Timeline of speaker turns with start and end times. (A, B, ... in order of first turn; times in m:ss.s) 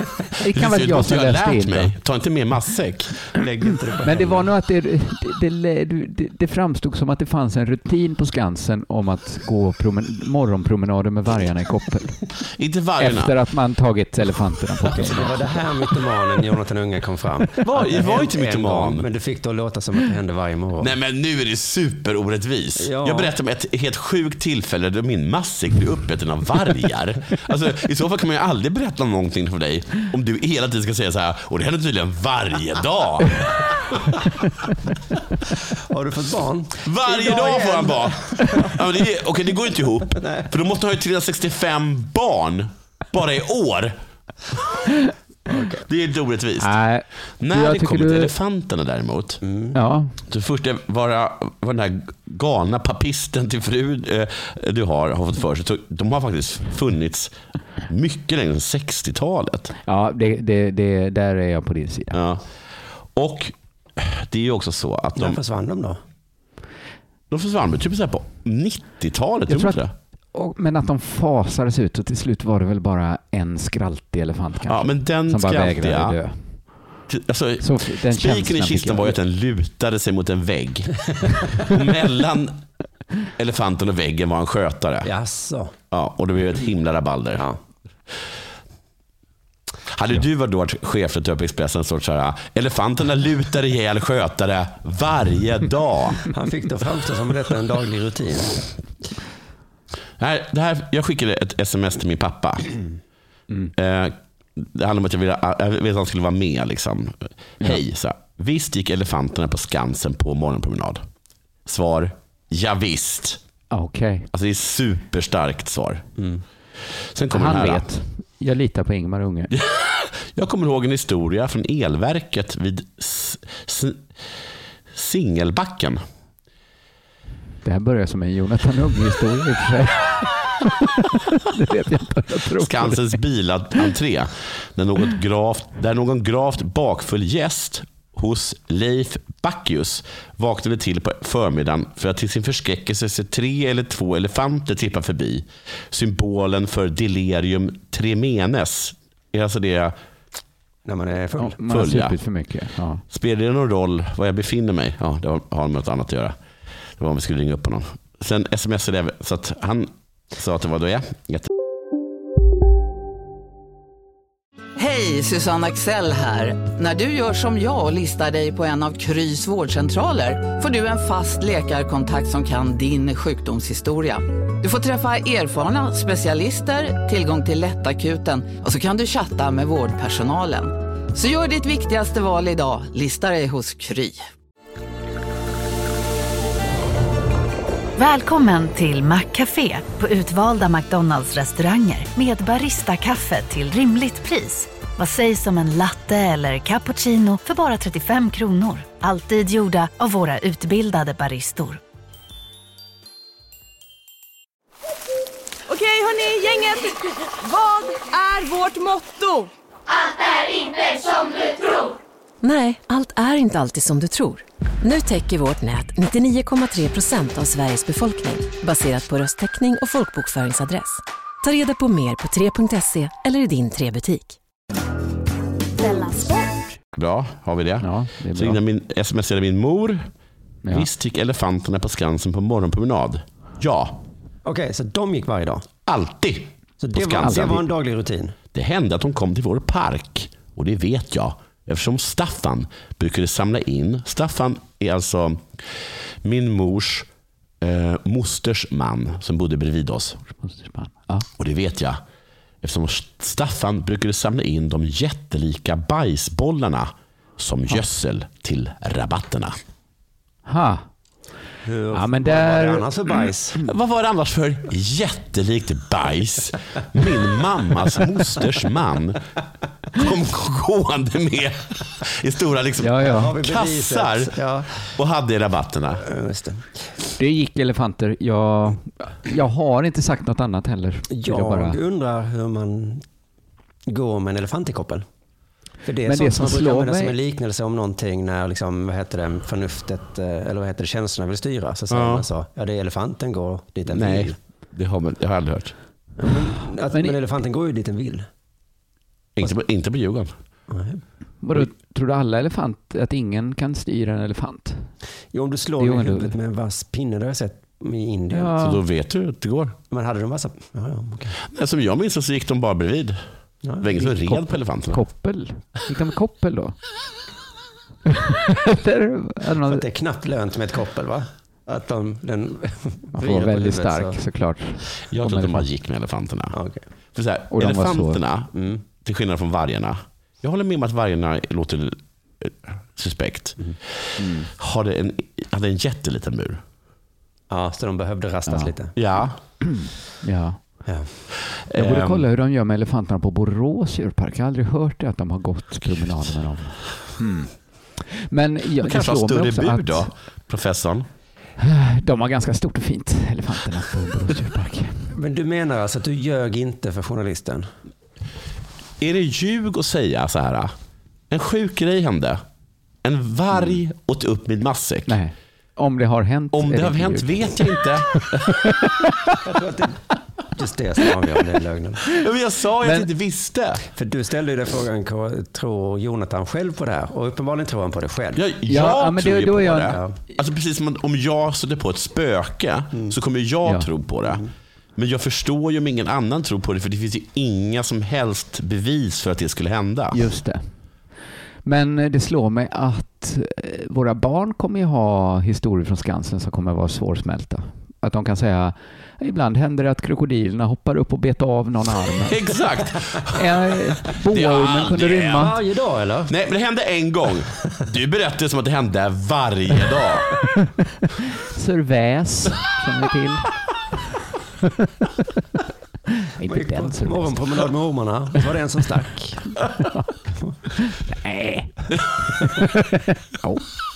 0:00.4-0:02.0 A
0:00.5-0:03.3 B
0:03.3-0:04.5 C
0:04.0-0:12.2 A
0:12.6-0:13.4 B
0:13.0-0:15.4 A
0:14.8-0:20.9 C
0:17.6-0:19.1 B
0:20.8-0:34.0 B
0:22.8-0:23.3 C
0:35.9-0:38.8 C
0:36.8-0:44.0 B
0:40.2-0:40.5 C
0:45.5-0:45.8 C
0:45.9-0:46.8 B
0:46.6-0:48.3 A
0:47.4-0:49.4 B
0:49.4-0:49.8 C
0:49.7-0:50.2 A
0:50.3-0:57.3 B
0:57.9-0:59.8 B
0:59.8-1:02.2 A
1:02.1-1:02.4 B
1:03.1-1:05.4 B
1:05.2-1:06.0 C
1:07.3-1:09.9 B
1:09.5-1:09.8 A
1:10.3-1:16.4 A
1:14.7-1:16.2 B
1:17.1-1:22.6 B
1:17.6-1:19.2 A
1:23.4-1:25.1 B
1:25.0-1:25.7 C
1:25.9-1:27.4 B
1:29.9-1:36.2 B
1:36.3-1:38.7 C
1:40.2-1:42.7 B
1:43.8-1:51.0 B
1:51.7-1:53.4 B
1:53.7-1:54.3 A
1:54.3-1:56.0 B
1:56.2-1:56.4 C
1:57.1-1:57.9 B
1:57.3-1:59.5 A
1:59.5-2:04.0 B
2:04.9-2:06.0 B
2:07.6-2:13.2 A
2:12.6-2:30.0 B
2:30.8-2:31.6 C
2:31.4-2:33.0 A
2:31.7-2:32.2 B
2:33.1-2:36.4 B
2:37.0-2:41.5 B
2:44.8-3:04.3 D
3:08.0-3:21.8 E
3:25.7-3:29.5 F
3:30.6-3:31.6 F
3:32.4-3:44.4 G
3:46.9-3:50.1 B
3:47.8-3:48.6 A
3:50.7-3:54.0 B
3:54.4-3:55.7 C
3:55.9-3:57.7 B
3:56.8-3:58.4 C
3:57.2-3:57.6 A
3:58.5-4:05.5 B
4:06.2-4:07.1 B
4:07.6-4:10.2 B
4:10.3-4:11.3 A
4:11.4-4:12.0 B
4:12.6-4:19.6 B
4:20.5-4:20.9 A
4:21.6-4:23.6 C
4:21.9-4:22.9 A
4:23.6-4:29.2 B
4:29.9-4:36.0 B
4:32.8-4:33.3 A
4:33.0-4:34.8 C
4:36.0-4:36.7 C
4:37.2-4:41.8 A
4:41.1-4:43.0 C
4:43.9-4:45.0 C
4:45.8-4:54.4 C
4:46.0-4:47.2 A
4:51.9-4:52.3 B
4:53.9-4:55.8 B
4:56.2-4:58.3 C
4:59.4-5:00.3 B
5:00.7-5:01.0 C
5:01.4-5:04.9 A
5:05.3-5:08.6 C
5:05.8-5:06.4 A
5:08.3-5:08.8 A
5:08.6-5:09.8 B
5:09.9-5:11.4 C
5:11.4-5:13.2 B
5:13.6-5:14.0 C
5:13.8-5:15.0 B
5:14.0-5:16.8 A
5:18.1-5:19.8 A
5:19.6-5:24.2 C
5:23.2-5:25.7 A
5:25.1-5:26.6 B
5:26.5-5:26.8 C
5:27.1-5:33.6 B
5:27.5-5:28.2 A
5:28.5-5:28.8 C
5:34.2-5:34.5 A
5:34.3-5:36.6 B
5:37.5-5:39.0 C
5:38.5-5:38.7 A
5:39.0-5:39.4 B
5:39.6-5:40.6 A
5:41.7-5:42.3 B
5:41.7-5:47.5 A
5:48.1-5:50.1 A
5:48.8-5:51.1 B
5:51.6-5:55.1 A
5:55.1-5:57.7 C
5:59.0-6:00.7 B
6:01.3-6:02.4 B
6:03.0-6:05.2 B
6:05.1-6:07.8 A
6:06.5-6:08.6 B
6:09.4-6:12.2 C
6:12.1-6:13.9 B
6:12.8-6:13.1 A
6:13.9-6:18.4 C
6:18.4-6:30.2 B
6:18.7-6:20.0 A
6:19.8-6:20.2 C
6:23.6-6:23.9 A
6:30.1-6:30.7 A
6:31.6-6:42.4 A
6:42.2-6:45.5 B
6:43.3-6:45.6 A
6:45.4-6:46.3 C
6:46.3-6:50.3 B
6:51.2-6:53.5 A
6:56.4-6:57.4 A
6:56.4-6:59.6 C
7:00.8-7:01.7 A
7:02.4-7:03.7 A